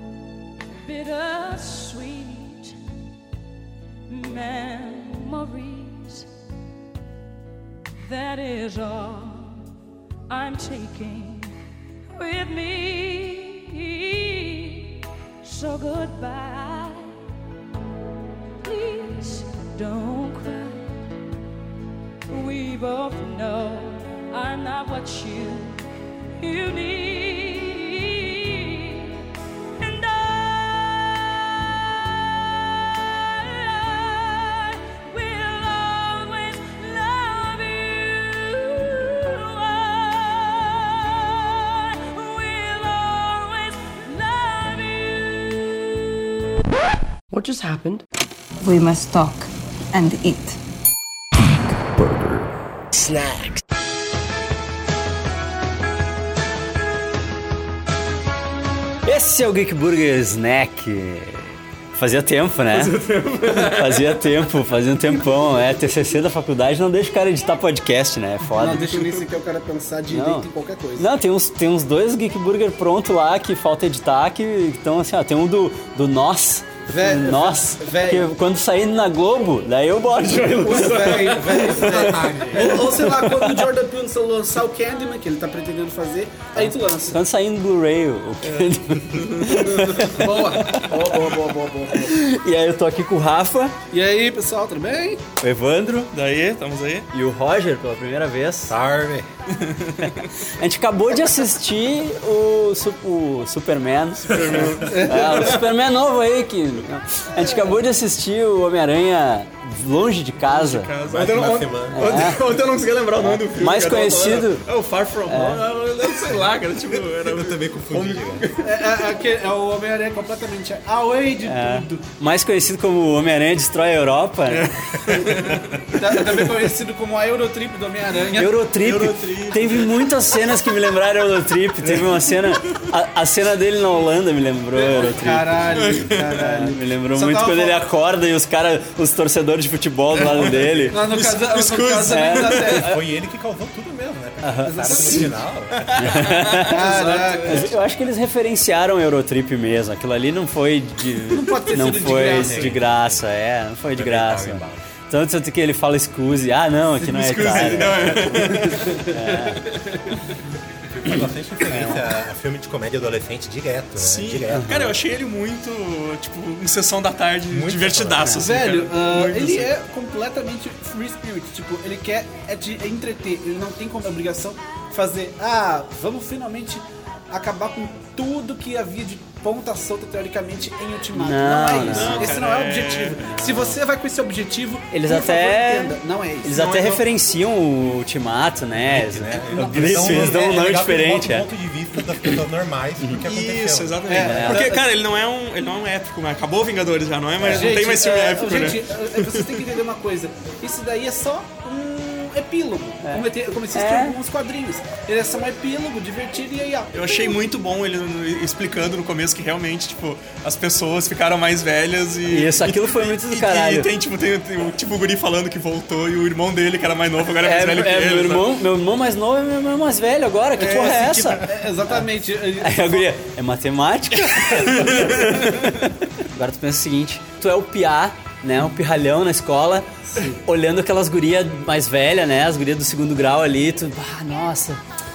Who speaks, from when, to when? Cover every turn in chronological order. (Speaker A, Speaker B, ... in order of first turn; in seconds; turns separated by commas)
Speaker A: 0.8-2.7, Speaker A: 4.1-6.3, Speaker A: 8.1-9.6, Speaker A: 10.3-11.5, Speaker A: 12.1-17.1, Speaker A: 18.6-20.9, Speaker A: 22.3-25.9, Speaker A: 26.4-29.2, Speaker A: 29.8-46.1, Speaker B: 48.6-50.6, Speaker B: 51.7-52.4, Speaker B: 53.0-53.6, Speaker C: 59.0-69.0, Speaker D: 62.7-64.3, Speaker E: 68.5-71.1, Speaker D: 68.8-69.2, Speaker C: 70.1-82.2, Speaker E: 76.9-78.3, Speaker D: 80.2-83.6, Speaker E: 80.6-87.2, Speaker F: 81.2-82.8, Speaker C: 86.5-91.2, Speaker D: 88.4-89.8, Speaker E: 89.4-92.2, Speaker C: 91.9-93.7, Speaker E: 93.9-95.2, Speaker C: 95.4-96.1, Speaker D: 96.1-97.1, Speaker C: 97.1-98.8, Speaker F: 98.7-99.3, Speaker D: 99.7-100.2, Speaker C: 100.0-110.9, Speaker D: 104.2-105.6, Speaker F: 104.4-104.7, Speaker E: 104.8-105.6, Speaker E: 107.3-107.8, Speaker D: 110.4-118.7, Speaker F: 111.0-112.4, Speaker C: 111.9-112.4, Speaker C: 113.2-114.6, Speaker C: 115.3-115.6, Speaker F: 116.0-118.5, Speaker E: 118.6-122.0, Speaker C: 121.4-124.7, Speaker D: 124.5-126.5, Speaker E: 126.0-128.6, Speaker C: 128.4-135.8, Speaker D: 128.8-130.1, Speaker D: 131.8-132.8, Speaker E: 134.7-137.8, Speaker D: 135.7-136.3, Speaker C: 136.3-141.0, Speaker D: 140.1-142.9, Speaker F: 140.6-140.9, Speaker E: 140.9-142.9, Speaker C: 142.1-143.0, Speaker F: 142.8-146.3, Speaker C: 144.4-145.3, Speaker E: 144.6-145.4, Speaker D: 145.8-147.7, Speaker C: 146.0-146.8, Speaker E: 146.6-147.7, Speaker C: 147.4-159.6, Speaker E: 151.3-152.8, Speaker F: 151.7-153.2, Speaker F: 153.9-154.8, Speaker D: 157.0-160.1, Speaker F: 160.8-165.0, Speaker D: 164.0-169.7, Speaker C: 164.5-164.9, Speaker F: 167.5-168.5, Speaker E: 168.4-187.1, Speaker C: 181.2-182.3, Speaker D: 181.8-183.2, Speaker C: 183.2-183.8, Speaker C: 184.9-191.4, Speaker F: 188.7-194.4, Speaker E: 189.5-190.4, Speaker D: 193.2-199.7, Speaker E: 194.1-194.8, Speaker C: 194.2-194.7, Speaker C: 197.4-197.7, Speaker E: 197.4-206.9, Speaker C: 203.0-204.2, Speaker D: 206.9-218.6, Speaker C: 212.3-213.9, Speaker C: 217.4-222.1, Speaker D: 220.6-221.5, Speaker E: 221.4-223.1, Speaker C: 222.6-234.8, Speaker D: 224.2-225.7